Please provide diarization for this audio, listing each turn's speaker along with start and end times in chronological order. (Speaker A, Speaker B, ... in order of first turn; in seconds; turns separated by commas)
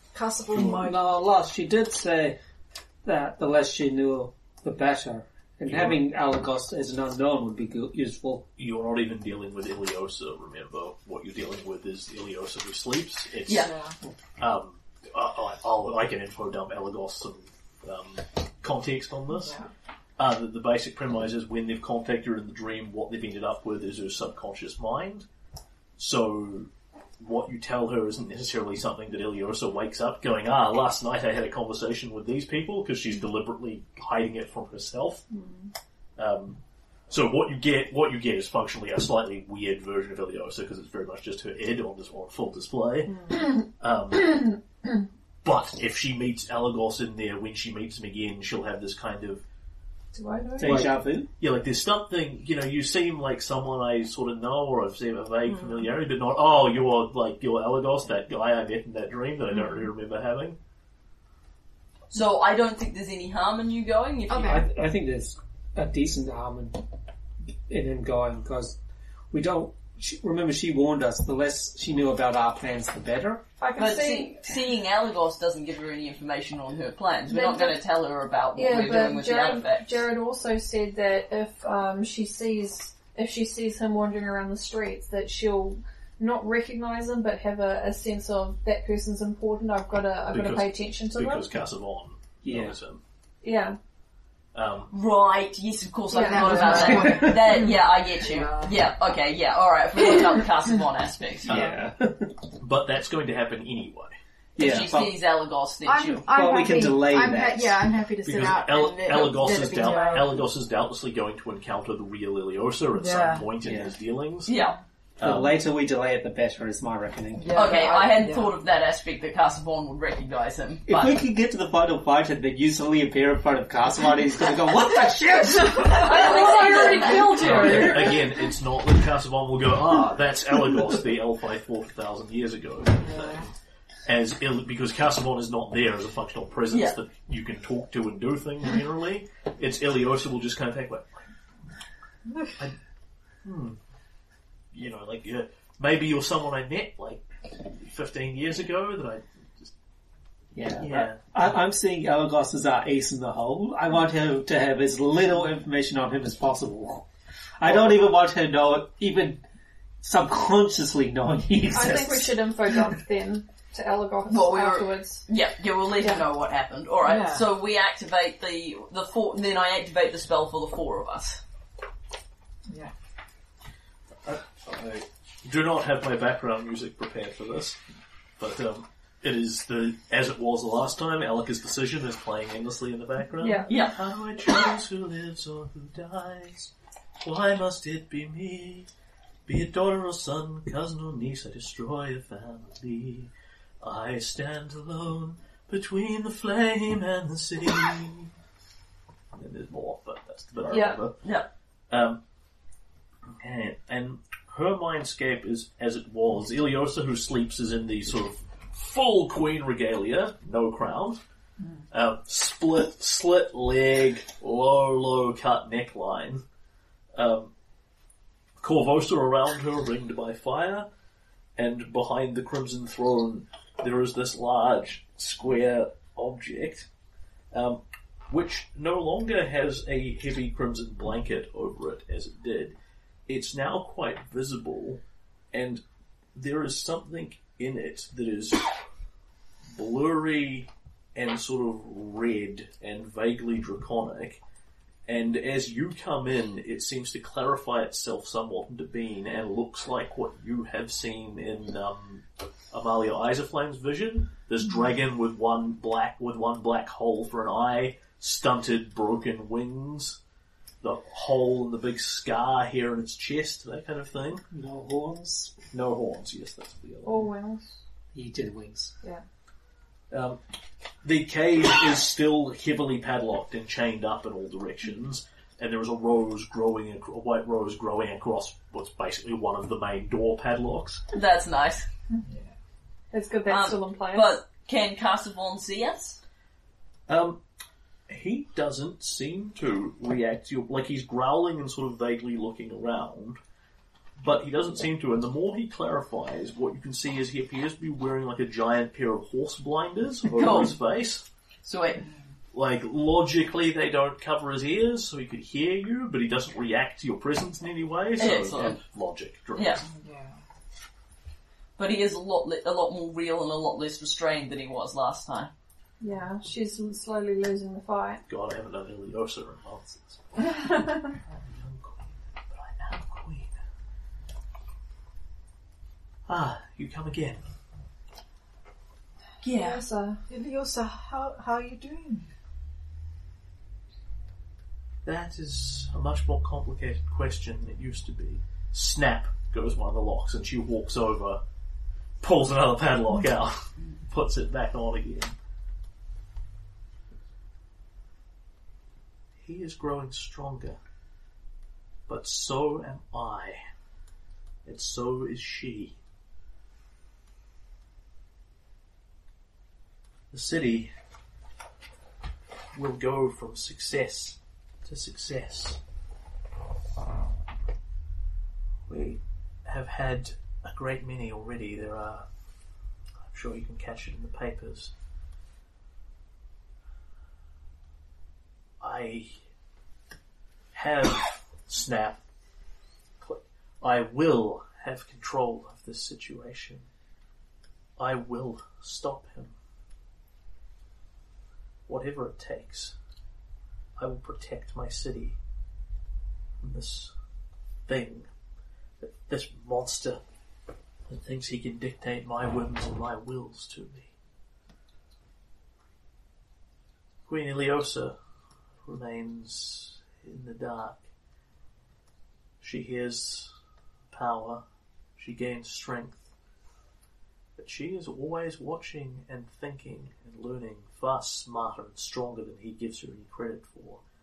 Speaker A: 0.1-1.0, Speaker B: 0.5-2.4, Speaker B: 3.0-8.4, Speaker C: 5.7-6.0, Speaker C: 8.6-13.7, Speaker D: 13.4-13.7, Speaker A: 13.6-13.9, Speaker C: 14.4-19.6, Speaker C: 20.2-25.3, Speaker C: 26.0-35.2, Speaker C: 36.2-44.6, Speaker E: 43.1-43.5, Speaker C: 45.4-49.4, Speaker F: 50.1-51.0, Speaker B: 50.6-51.3, Speaker C: 51.4-60.6, Speaker D: 62.1-64.6, Speaker E: 64.3-64.7, Speaker B: 64.4-66.8, Speaker B: 67.7-68.8, Speaker B: 69.3-73.4, Speaker F: 73.6-74.6, Speaker D: 73.8-80.0, Speaker F: 77.3-77.8, Speaker F: 78.5-91.5, Speaker C: 90.3-93.0, Speaker B: 92.4-92.7, Speaker F: 93.4-93.8, Speaker C: 94.5-94.9, Speaker D: 94.9-101.6, Speaker E: 96.1-97.6, Speaker A: 96.2-98.7, Speaker B: 96.7-97.5, Speaker B: 101.5-102.3, Speaker C: 101.5-101.9, Speaker C: 102.6-104.1, Speaker B: 104.5-105.2, Speaker D: 104.6-106.3, Speaker E: 105.9-110.4, Speaker B: 106.3-107.8, Speaker C: 108.2-115.6, Speaker A: 109.8-110.3, Speaker A: 113.0-113.5, Speaker B: 113.6-113.9, Speaker D: 114.5-114.8, Speaker B: 115.2-117.7, Speaker A: 117.3-118.5, Speaker D: 117.5-121.2, Speaker B: 120.9-126.3, Speaker A: 125.4-126.0, Speaker D: 125.8-128.2, Speaker F: 125.9-128.2, Speaker E: 126.2-127.2, Speaker C: 127.3-133.5, Speaker A: 133.0-133.5, Speaker C: 134.1-141.3, Speaker D: 136.7-137.0, Speaker C: 143.4-143.8, Speaker C: 144.7-149.7, Speaker B: 150.6-157.1, Speaker C: 150.8-151.6, Speaker B: 157.6-159.4, Speaker C: 157.6-158.1, Speaker B: 160.0-162.4, Speaker F: 161.7-165.3, Speaker D: 164.3-171.4, Speaker A: 167.0-167.4, Speaker A: 172.7-172.9, Speaker C: 174.2-177.8, Speaker C: 178.4-188.9, Speaker F: 183.4-183.9, Speaker D: 183.7-183.9, Speaker C: 189.4-198.3, Speaker C: 199.3-201.4, Speaker F: 200.7-201.0, Speaker C: 201.9-202.2, Speaker C: 203.3-211.2, Speaker C: 211.9-216.4, Speaker C: 217.2-217.5, Speaker C: 218.6-220.9, Speaker C: 221.6-226.9, Speaker C: 227.5-232.8, Speaker C: 233.3-235.8, Speaker C: 236.3-238.7, Speaker C: 239.7-244.4, Speaker C: 245.1-260.2, Speaker C: 260.8-264.4, Speaker B: 264.5-265.6, Speaker C: 265.7-267.3, Speaker F: 267.0-267.8, Speaker B: 268.1-268.9, Speaker C: 270.1-270.4, Speaker C: 271.0-281.0, Speaker D: 281.1-281.9, Speaker A: 282.2-282.5, Speaker F: 283.1-284.4, Speaker D: 283.5-286.2, Speaker C: 287.1-287.4, Speaker C: 288.1-293.4, Speaker C: 294.2-301.2, Speaker D: 300.3-300.8, Speaker D: 301.6-302.0, Speaker C: 302.5-309.9, Speaker D: 308.2-308.8, Speaker D: 309.6-309.8, Speaker A: 309.9-310.4, Speaker D: 311.8-315.5, Speaker F: 316.0-318.2, Speaker C: 318.3-320.4, Speaker F: 320.6-321.1, Speaker C: 321.3-323.5, Speaker C: 326.3-327.4, Speaker D: 329.4-329.8, Speaker F: 329.5-330.2, Speaker A: 330.3-332.3, Speaker C: 335.1-341.4, Speaker C: 342.2-345.3, Speaker C: 349.4-350.8, Speaker C: 352.1-353.6, Speaker C: 354.6-355.9, Speaker C: 360.3-360.9, Speaker C: 362.7-365.8, Speaker C: 368.9-372.3, Speaker C: 373.3-374.9, Speaker C: 378.8-379.4, Speaker C: 380.7-382.2, Speaker C: 383.2-386.9, Speaker C: 388.0-389.5, Speaker C: 391.9-392.9, Speaker C: 394.0-395.4, Speaker C: 396.6-397.1, Speaker C: 397.9-398.3, Speaker C: 399.0-400.2, Speaker C: 401.1-404.1, Speaker C: 407.3-408.2, Speaker C: 408.8-411.0, Speaker C: 412.6-413.5, Speaker C: 414.1-414.6, Speaker C: 415.2-416.3, Speaker C: 417.6-424.0